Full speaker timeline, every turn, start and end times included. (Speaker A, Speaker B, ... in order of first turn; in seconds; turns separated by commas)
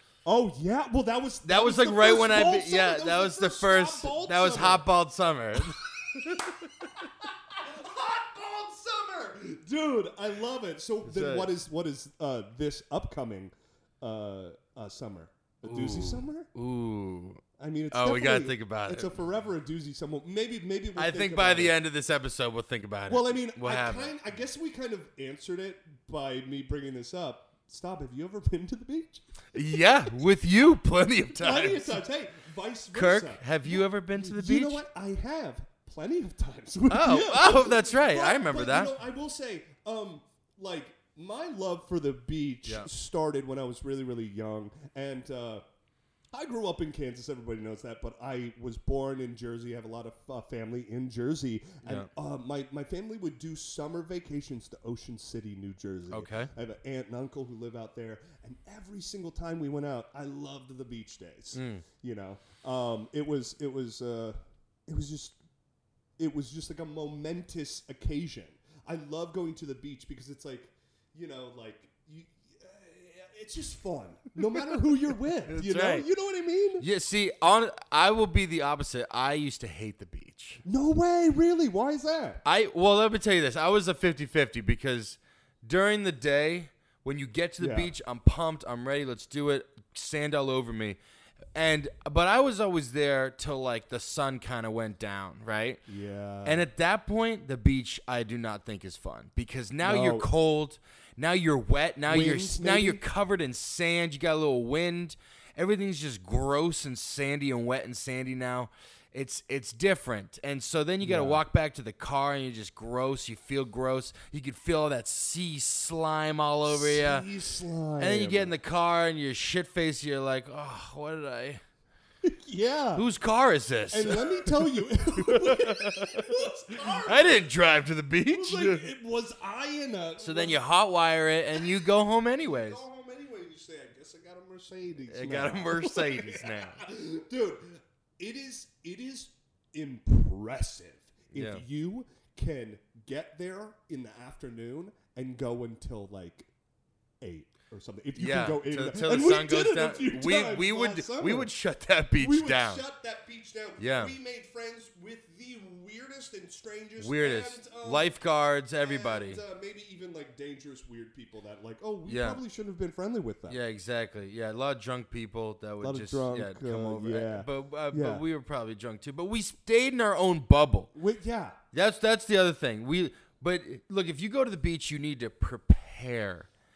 Speaker A: 0.2-4.9, Speaker B: 1.4-7.0, Speaker A: 5.6-16.5, Speaker B: 11.0-11.5, Speaker B: 15.7-19.1, Speaker A: 17.6-21.8, Speaker B: 20.9-24.1, Speaker A: 23.1-29.2, Speaker B: 29.5-31.9, Speaker A: 31.4-45.6, Speaker B: 32.9-34.8, Speaker B: 36.9-38.9, Speaker A: 46.3-65.4, Speaker B: 56.1-56.5, Speaker B: 61.5-61.8, Speaker A: 66.2-76.8, Speaker B: 75.5-76.0, Speaker B: 76.8-80.6, Speaker A: 80.6-82.4, Speaker B: 82.4-91.0, Speaker A: 87.6-87.9, Speaker B: 91.5-95.8, Speaker A: 95.9-96.7, Speaker B: 96.4-117.3, Speaker A: 99.8-100.3, Speaker A: 102.1-103.0, Speaker A: 111.0-111.4, Speaker A: 116.7-118.5, Speaker B: 118.0-121.6, Speaker A: 122.2-123.0, Speaker B: 123.0-128.9, Speaker A: 123.9-127.5, Speaker A: 128.3-130.6, Speaker B: 130.2-132.8, Speaker A: 131.5-146.5, Speaker B: 135.1-136.8, Speaker B: 141.3-141.6, Speaker A: 147.2-151.5, Speaker B: 148.2-152.8, Speaker A: 152.2-158.1, Speaker B: 153.8-154.1, Speaker B: 157.0-159.4, Speaker A: 158.8-163.6, Speaker B: 162.1-162.4, Speaker B: 163.5-170.9, Speaker A: 165.8-168.2, Speaker A: 170.9-171.6, Speaker B: 171.7-176.5